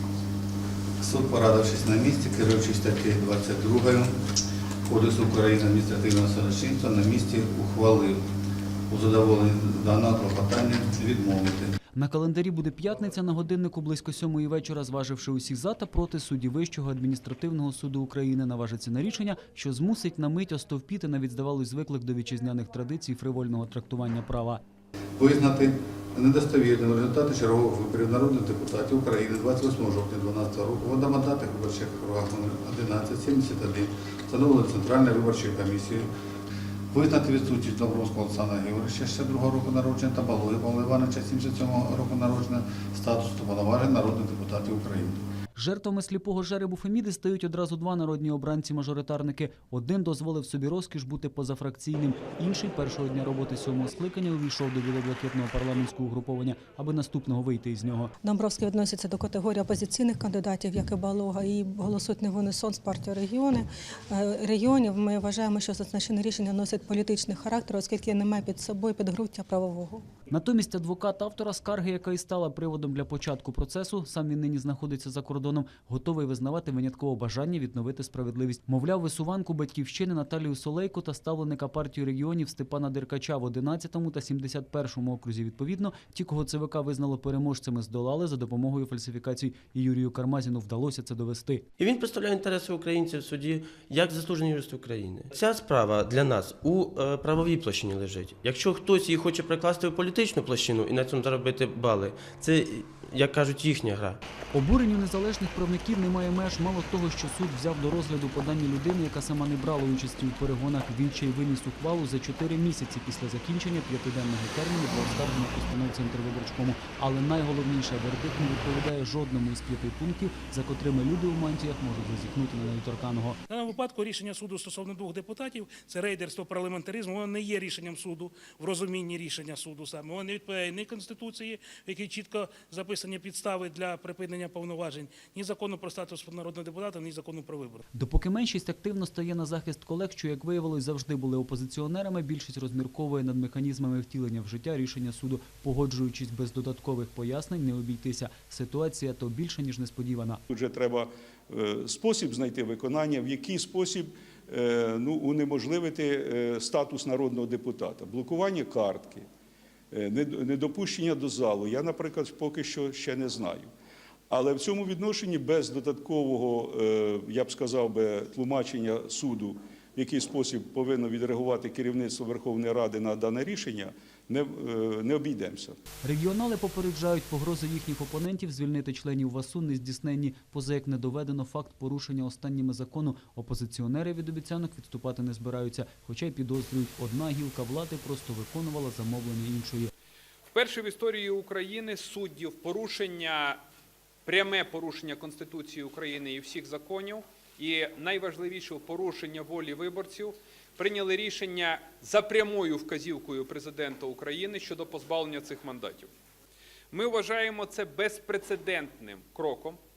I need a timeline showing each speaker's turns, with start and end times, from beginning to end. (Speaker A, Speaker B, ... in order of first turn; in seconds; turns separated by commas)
Speaker A: 1.0-4.1, Speaker A: 4.9-8.2, Speaker A: 8.9-11.7, Speaker B: 11.9-24.6, Speaker A: 25.2-36.1, Speaker A: 36.9-45.2, Speaker B: 45.5-58.1, Speaker C: 58.2-70.0, Speaker B: 70.3-91.6, Speaker D: 91.8-104.2, Speaker B: 104.5-123.4, Speaker E: 123.5-137.8, Speaker B: 137.9-150.4, Speaker F: 150.5-159.2, Speaker F: 159.9-163.7, Speaker F: 164.3-175.8, Speaker B: 176.0-189.9, Speaker G: 190.5-193.6, Speaker G: 194.2-206.1, Speaker G: 206.9-209.8